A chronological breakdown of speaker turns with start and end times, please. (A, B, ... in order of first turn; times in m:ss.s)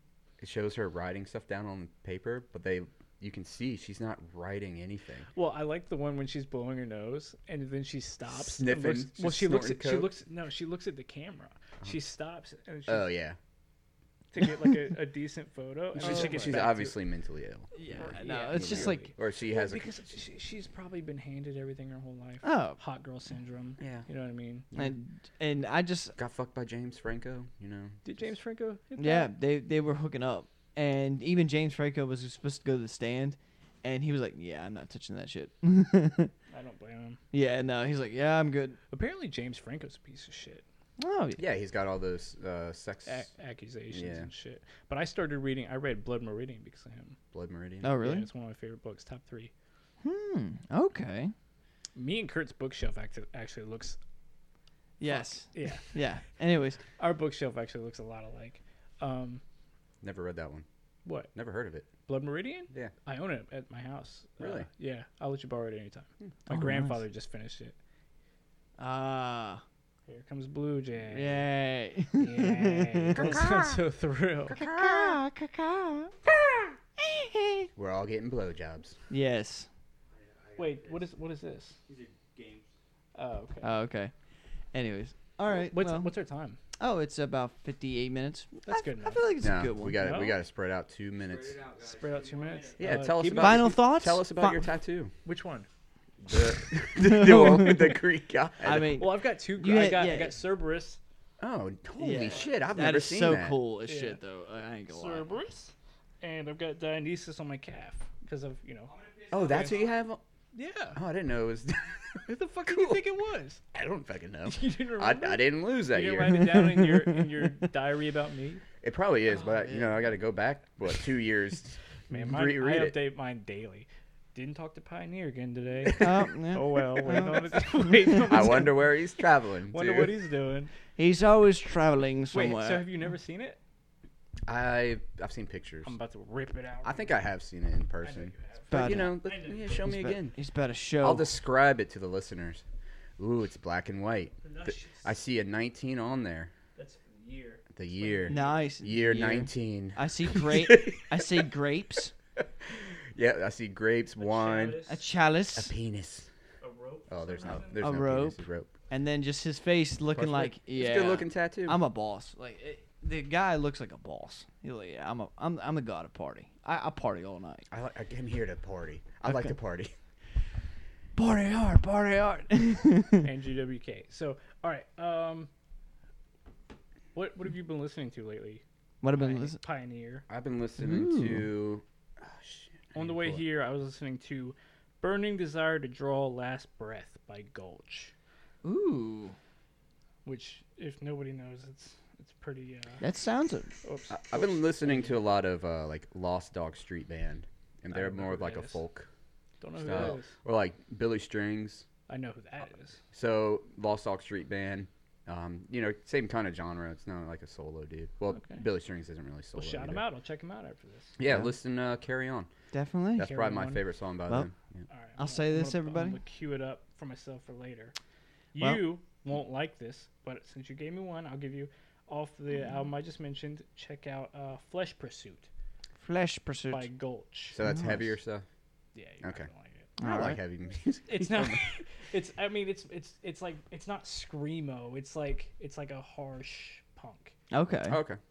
0:00.4-0:05.3 A
0:05.4-0:13.1 B
0:08.3-0:10.1 A
0:12.9-0:13.4 A
0:14.3-0:17.0 B
0:16.0-0:19.9 A
0:16.0-0:16.6 C
0:17.8-0:19.1 C
0:17.9-0:24.7 B
0:22.4-0:22.8 C
0:23.8-0:24.1 A
0:24.8-0:26.2 C
0:26.2-0:28.0 A
0:28.0-0:29.3 B
0:29.0-0:36.3 C
0:36.5-0:37.2 B
0:37.3-0:38.8 C
0:38.9-0:40.6 B
0:41.0-0:41.4 C
0:41.4-0:43.3 A
0:43.1-0:47.2 B
0:43.9-0:44.3 A
0:47.3-0:47.9 A
0:47.8-0:48.3 C
0:47.9-0:49.5 B
0:50.0-0:51.3 C
0:52.0-0:54.0 B
0:55.0-0:56.8 C
0:55.1-0:56.0 B
0:57.0-0:59.4 B
1:00.0-1:00.6 A
1:01.0-1:01.3 B
1:01.4-1:01.9 A
1:02.1-1:07.8 B
1:04.4-1:04.7 A
1:06.5-1:07.0 C
1:08.8-1:09.6 C
1:10.1-1:11.5 B
1:11.1-1:13.8 C
1:12.2-1:14.6 B
1:13.2-1:13.6 A
1:14.5-1:16.2 C
1:14.5-1:15.2 A
1:17.0-1:17.7 C
1:17.8-1:19.0 A
1:19.1-1:19.7 C
1:20.6-1:21.8 B
1:23.2-1:23.7 B
1:23.6-1:24.1 C
1:24.7-1:26.1 C
1:25.5-1:26.6 B
1:26.8-1:30.1 C
1:28.6-1:29.3 B
1:29.4-1:31.7 A
1:30.0-1:30.4 B
1:31.8-1:33.8 B
1:32.8-1:35.1 A
1:33.4-1:34.7 C
1:35.2-1:35.7 B
1:36.2-1:39.0 A
1:37.0-1:38.0 C
1:38.6-1:40.4 C
1:38.9-1:41.0 B
1:41.4-1:43.6 A
1:42.0-1:45.3 C
1:43.9-1:44.2 B
1:44.9-1:49.9 B
1:49.3-1:50.2 A
1:50.6-1:51.0 B
1:51.0-1:53.0 A
1:52.3-1:53.6 B
1:53.7-1:56.8 A
1:54.5-1:58.6 B
1:56.6-1:57.5 C
1:58.8-2:03.0 A
1:59.4-2:00.0 C
2:02.1-2:10.7 B
2:06.0-2:08.5 C
2:08.3-2:10.2 A
2:11.0-2:12.9 C
2:12.3-2:13.6 B
2:14.5-2:15.9 A
2:15.8-2:17.2 B
2:16.8-2:20.4 A
2:18.0-2:19.9 B
2:18.7-2:19.2 C
2:19.8-2:21.3 C
2:21.0-2:22.6 A
2:23.2-2:26.5 A
2:24.4-2:25.1 B
2:26.8-2:28.7 B
2:27.8-2:31.5 A
2:28.3-2:32.1 C
2:32.6-2:34.8 A
2:34.2-2:35.0 B
2:34.9-2:35.7 C
2:35.6-2:36.3 A
2:36.6-2:37.9 B
2:37.1-2:38.7 A
2:37.8-2:38.4 C
2:38.9-2:47.7 C
2:40.2-2:41.8 A
2:47.7-2:49.9 A
2:49.2-2:49.5 C
2:51.2-2:53.3 C
2:53.2-2:55.5 B
2:57.1-3:00.2 B
2:59.0-2:59.6 C
3:00.3-3:03.4 A
3:00.8-3:01.5 C
3:03.0-3:08.1 B
3:08.6-3:09.4 C
3:10.2-3:13.0 B
3:13.0-3:13.7 C
3:13.8-3:15.2 B
3:14.1-3:19.1 A
3:17.9-3:18.8 B
3:19.6-3:20.4 B
3:19.8-3:21.8 A
3:22.1-3:23.0 B
3:23.1-3:30.0 A
3:28.3-3:28.6 B
3:29.6-3:31.2 B
3:31.2-3:32.5 A
3:31.2-3:31.5 C
3:32.7-3:33.3 C
3:33.2-3:34.9 A
3:33.2-3:33.8 B
3:34.9-3:37.9 B
3:35.2-3:36.2 C
3:38.6-3:45.5 B
3:46.0-3:46.9 C
3:46.7-3:47.6 B
3:47.5-3:48.4 A
3:47.6-3:48.1 C
3:49.0-3:50.0 B
3:49.2-3:49.5 A
3:50.0-3:50.4 C
3:50.0-3:51.6 A
3:51.1-3:57.4 B
3:57.5-3:58.0 C
3:57.9-3:58.2 A